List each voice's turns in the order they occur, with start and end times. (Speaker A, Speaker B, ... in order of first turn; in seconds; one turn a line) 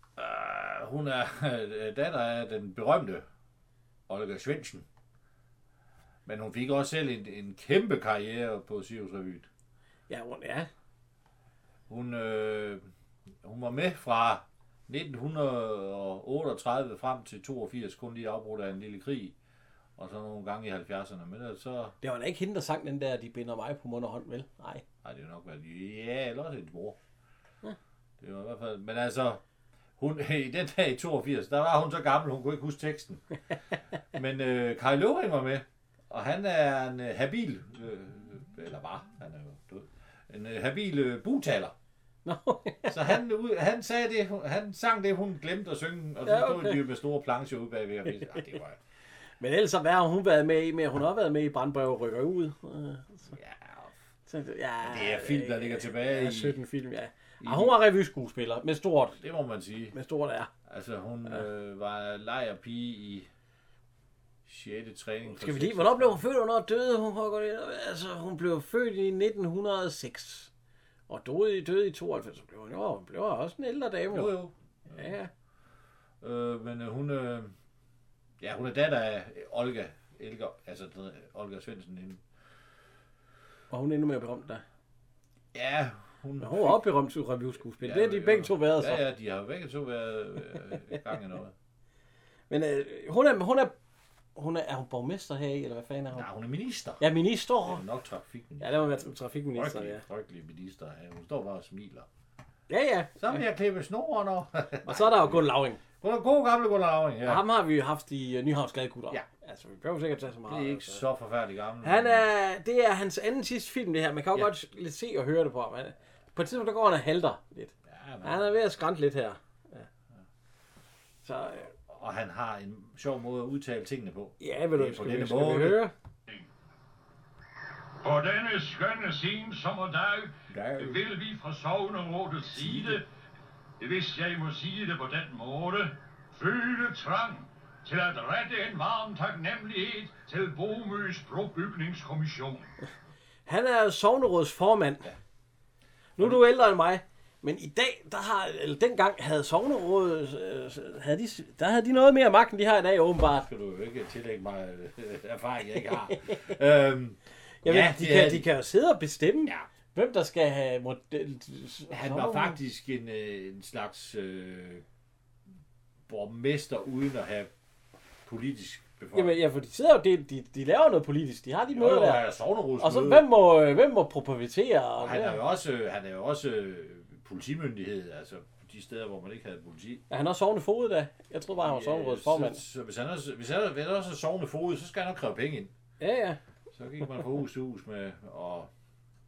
Speaker A: 0.2-3.2
Speaker A: 4.1-4.8
Speaker A: 6.2-9.5
Speaker B: 10.1-10.7
Speaker A: 11.9-12.9
Speaker A: 13.4-19.3
Speaker A: 20.0-21.9
Speaker B: 22.0-24.8
Speaker A: 25.0-27.0
Speaker A: 28.2-29.4
Speaker A: 30.0-33.2
Speaker A: 34.1-41.7
Speaker B: 42.2-43.0
Speaker A: 42.9-48.8
Speaker B: 46.2-46.8
Speaker B: 49.4-53.3
Speaker A: 53.3-53.9
Speaker B: 54.3-59.2
Speaker A: 54.8-56.5
Speaker A: 57.4-57.8
Speaker A: 59.2-59.9
Speaker B: 59.9-60.5
Speaker A: 60.7-63.3
Speaker A: 64.5-66.2
Speaker B: 65.2-70.5
Speaker B: 71.1-74.3
Speaker A: 74.1-75.1
Speaker B: 74.9-75.3
Speaker A: 76.2-77.5
Speaker A: 78.4-82.2
Speaker B: 83.7-84.6
Speaker A: 85.5-86.8
Speaker B: 86.4-89.0
Speaker A: 87.8-91.5
Speaker B: 92.5-93.7
Speaker B: 94.3-96.2
Speaker A: 96.1-97.0
Speaker B: 97.0-97.8
Speaker A: 97.6-102.1
Speaker B: 98.6-100.0
Speaker B: 102.7-103.4
Speaker A: 103.2-107.4
Speaker B: 104.8-105.8
Speaker B: 107.2-111.0
Speaker A: 110.5-112.2
Speaker B: 111.8-117.7
Speaker A: 117.9-118.5
Speaker B: 118.2-119.9
Speaker B: 121.2-121.7
Speaker A: 121.9-125.8
Speaker B: 124.4-125.9
Speaker C: 128.0-133.0
Speaker A: 130.5-131.0
Speaker A: 132.5-133.0
Speaker C: 133.8-142.7
Speaker B: 143.4-145.1
Speaker B: 146.2-153.4
Speaker A: 153.3-158.4
Speaker B: 157.6-162.6
Speaker A: 161.9-164.8
Speaker A: 166.1-167.5
Speaker A: 168.2-169.4
Speaker B: 169.1-172.2
Speaker A: 171.7-173.3
Speaker B: 172.8-175.4
Speaker A: 175.0-180.0
Speaker B: 180.1-182.6
Speaker A: 181.6-185.7
Speaker B: 186.0-186.4
Speaker A: 186.7-188.7